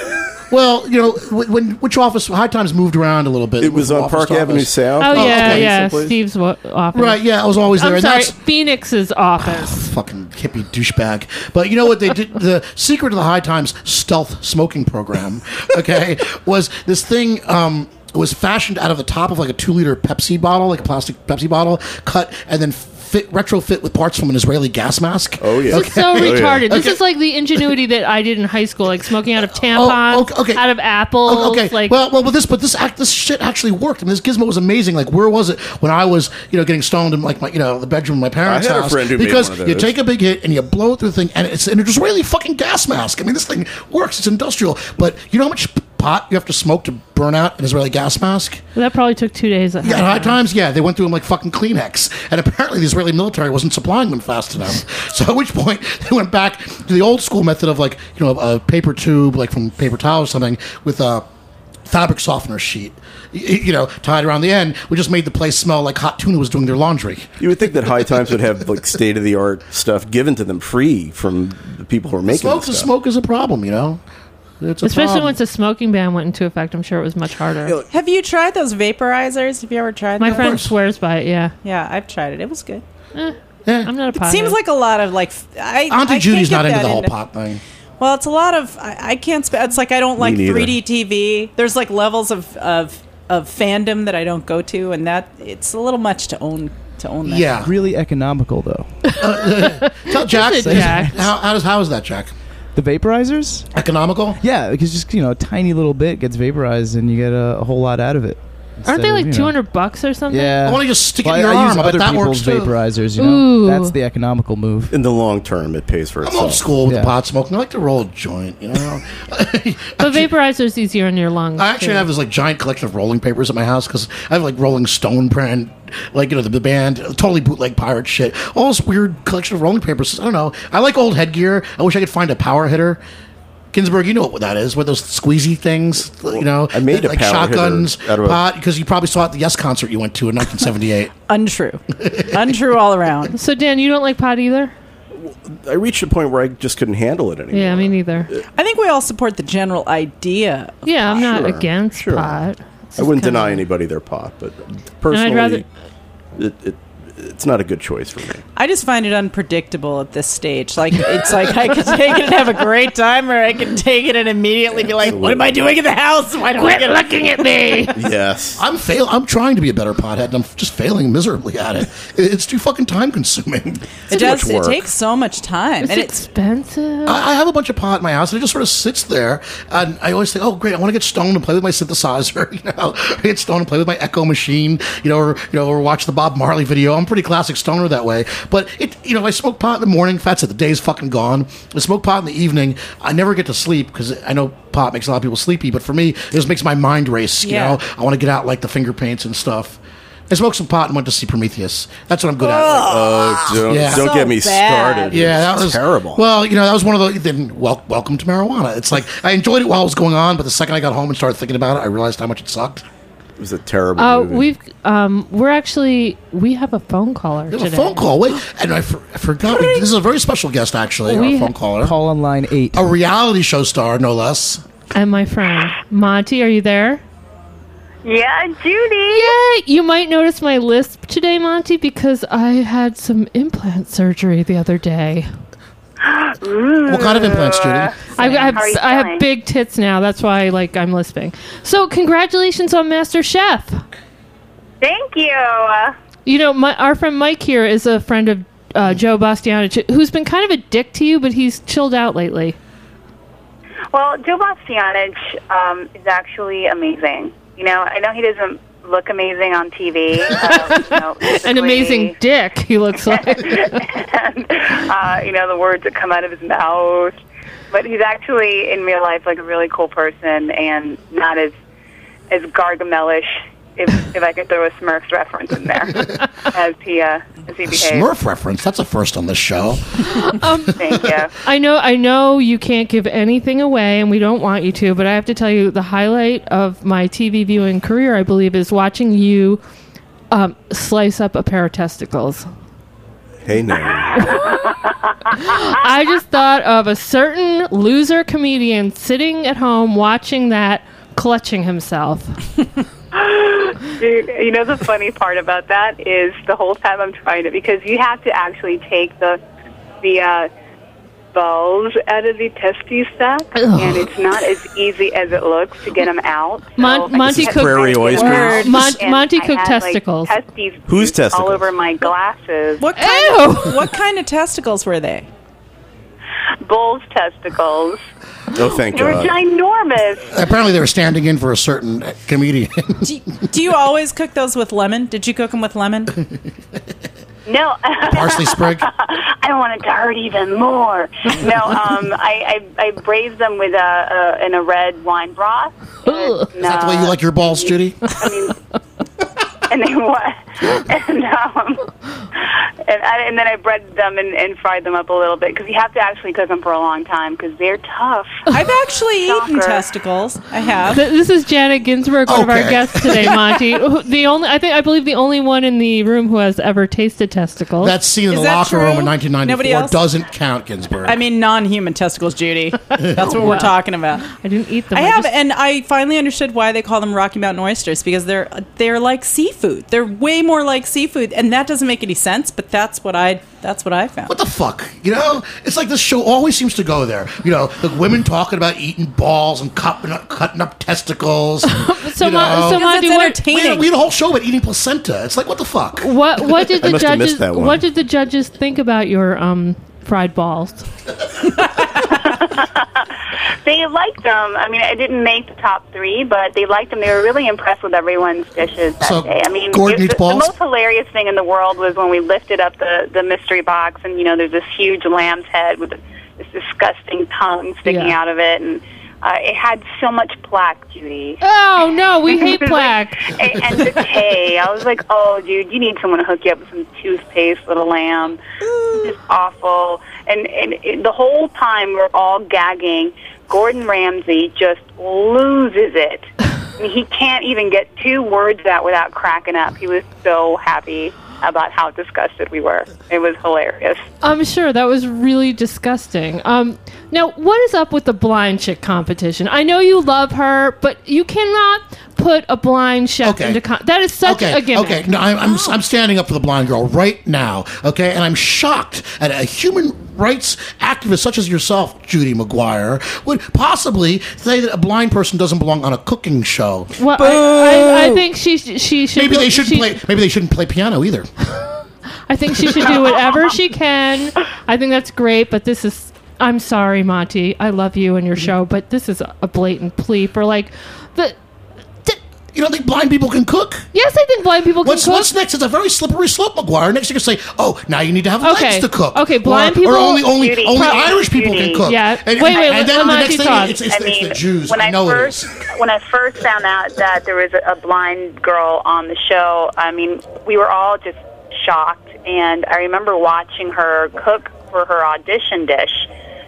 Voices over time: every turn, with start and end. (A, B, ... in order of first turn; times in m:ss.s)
0:00.5-0:05.7 A
0:03.6-0:06.2 B
0:05.0-0:07.2 C
0:06.9-0:08.4 A
0:07.8-0:09.9 C
0:09.4-0:27.0 A
0:25.4-0:26.7 B
0:25.7-0:31.9 C
0:29.6-0:30.7 A
0:31.2-0:48.6 A
0:38.4-0:39.9 B
0:48.8-0:50.4 C
0:49.8-1:01.3 A
1:01.9-1:08.6 A
1:07.4-1:12.9 B
1:12.3-1:14.0 A
1:14.6-1:15.4 A
1:14.8-1:17.8 C
1:17.6-1:17.9 B
1:17.9-1:20.6 D
1:20.2-1:20.7 A
1:20.2-1:21.5 C
1:21.6-1:22.8 D
1:23.2-1:24.6 C
1:23.7-1:23.9 A
1:24.1-1:27.2 D
1:25.9-1:27.6 A
1:28.0-1:37.6 D
1:30.2-1:30.8 B
1:37.2-1:37.7 A
1:37.6-1:38.9 E
1:39.1-1:41.1 C
1:39.2-1:42.3 A
1:40.3-1:41.3 E
1:42.8-1:43.7 E
1:43.7-1:44.4 A
1:44.4-1:49.6 E
1:48.9-1:50.6 C
1:50.3-1:55.0 E
1:50.6-1:52.8 A
1:53.2-1:54.0 C
1:54.9-1:56.7 B
1:56.2-2:00.3 A
1:56.8-1:57.2 E
2:00.0-2:02.1 C
2:01.6-2:13.0 A
2:13.7-2:21.1 A
2:16.3-2:18.4 B
2:21.3-2:23.4 D
2:22.0-2:22.5 A
2:23.4-2:24.7 C
2:25.2-2:28.4 B
2:27.5-2:28.3 C
2:28.6-2:30.9 D
2:30.8-2:33.6 C
2:31.1-2:32.4 B
2:33.0-2:35.7 B
2:35.1-2:35.6 C
2:36.4-2:38.4 B
2:38.6-2:47.2 D
2:45.0-2:45.5 B
2:46.6-2:47.9 C
2:48.0-2:48.6 B
2:48.6-2:53.9 A
2:54.1-2:54.8 B
2:54.1-2:56.2 D
2:55.8-2:57.2 C
2:57.1-3:24.2 A
3:17.4-3:17.8 D
3:22.4-3:25.4 D
3:22.8-3:26.2 B
3:25.1-3:32.8 A
3:33.4-3:34.5 B
3:34.0-3:38.1 C
3:37.5-3:42.0 A
3:41.1-3:41.5 C
3:41.8-3:42.9 E
3:42.7-3:44.6 A
3:44.9-3:47.0 C
3:48.0-3:49.4 F
3:49.1-3:55.3 C
3:56.0-3:59.2 F
3:56.9-3:58.0 A
3:58.2-4:03.8 C
4:04.8-4:06.0 F
4:06.3-4:12.6 C
4:13.9-4:22.2 F
4:21.3-4:23.8 C
4:23.1-4:27.2 F
4:27.7-4:31.5 F
4:32.3-4:38.1 F
4:37.7-4:40.4 A
4:40.1-4:40.8 C
4:40.8-4:41.3 F
4:41.4-4:49.6 C
4:50.3-4:52.5 C
4:53.4-4:54.4 B
4:54.2-4:54.7 C
4:55.3-5:02.4 C
5:03.1-5:09.4 F
5:10.0-5:10.5 F
5:11.3-5:22.8 F
5:13.6-5:14.1 C
5:16.8-5:20.3 C
5:17.1-5:18.9 B
5:18.2-5:18.7 D
5:20.9-5:21.7 B
5:22.8-5:25.3 D
5:23.0-5:23.8 C
5:26.6-5:28.0 F
5:28.5-5:29.4 B
5:28.9-5:30.3 F
5:30.3-5:33.1 A
5:33.0-5:36.2 D
5:37.5-5:48.6 F
5:38.1-5:38.9 A
5:46.1-5:46.4 C
5:46.6-5:48.2 A
5:49.7-5:58.5 F
5:58.5-6:01.0 D
5:59.2-5:59.8 F
6:00.9-6:08.0 C
6:02.3-6:03.6 A
6:07.8-6:11.2 A
6:08.3-6:10.0 D
6:11.0-6:14.3 D
6:13.0-6:13.7 A
6:13.2-6:15.3 C
6:14.9-6:24.3 D
6:24.3-6:32.9 A
6:31.6-6:33.4 C
6:32.6-6:33.9 D
6:33.4-6:36.2 A
6:36.0-6:40.9 C
6:36.7-6:37.8 B
6:42.1-7:01.4 F
6:49.0-6:50.5 A
6:57.8-6:58.2 C
7:01.4-7:03.4 C
7:02.3-7:24.0 F
7:24.2-7:35.7 C
7:33.2-7:33.6 A
7:34.2-7:47.9 A
7:47.0-7:50.0 C
7:49.2-7:51.3 A
7:52.3-8:01.4 C
7:52.6-7:53.0 A
8:02.5-8:03.9 A
8:03.9-8:05.3 C
8:04.8-8:15.5 A
8:08.4-8:10.3 C
8:10.2-8:11.9 F
8:11.8-8:13.8 C
8:12.5-8:26.1 F